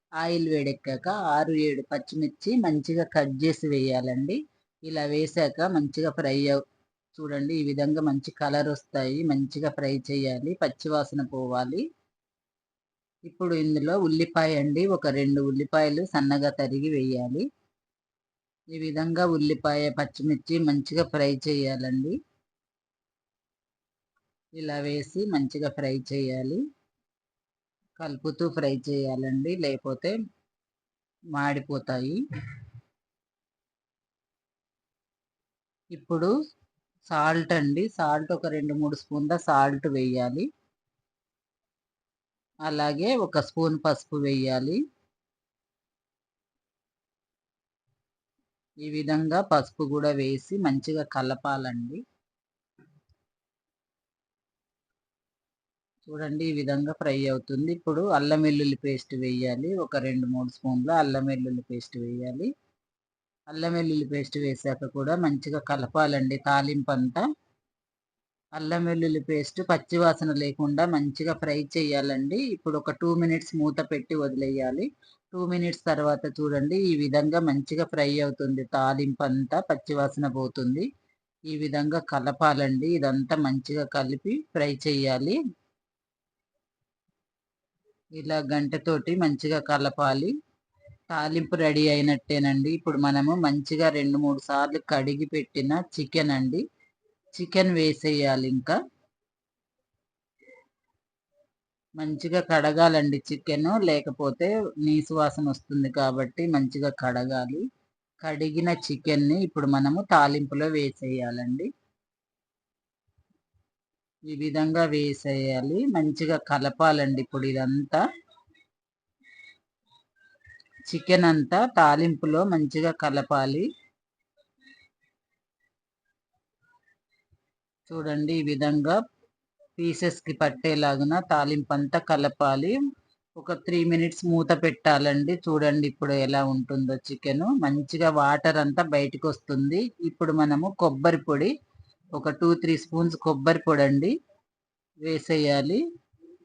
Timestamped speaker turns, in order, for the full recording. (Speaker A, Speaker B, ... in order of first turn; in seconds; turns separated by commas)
Speaker A: 0.2-6.6, Speaker A: 7.2-11.8, Speaker A: 13.3-17.5, Speaker A: 18.7-22.2, Speaker A: 24.6-26.6, Speaker A: 28.0-30.1, Speaker A: 31.4-32.2, Speaker A: 35.9-36.3, Speaker A: 37.1-40.5, Speaker A: 42.7-44.8, Speaker A: 48.8-52.0, Speaker A: 56.1-62.5, Speaker A: 63.5-67.2, Speaker A: 68.6-80.9, Speaker A: 81.5-85.4, Speaker A: 88.2-90.3, Speaker A: 91.1-96.6, Speaker A: 97.4-98.8, Speaker A: 102.0-107.6, Speaker A: 108.2-111.7, Speaker A: 114.3-118.0, Speaker A: 120.9-123.7, Speaker A: 127.9-129.0, Speaker A: 129.8-132.8, Speaker A: 133.4-141.5, Speaker A: 142.1-144.1, Speaker A: 145.1-145.8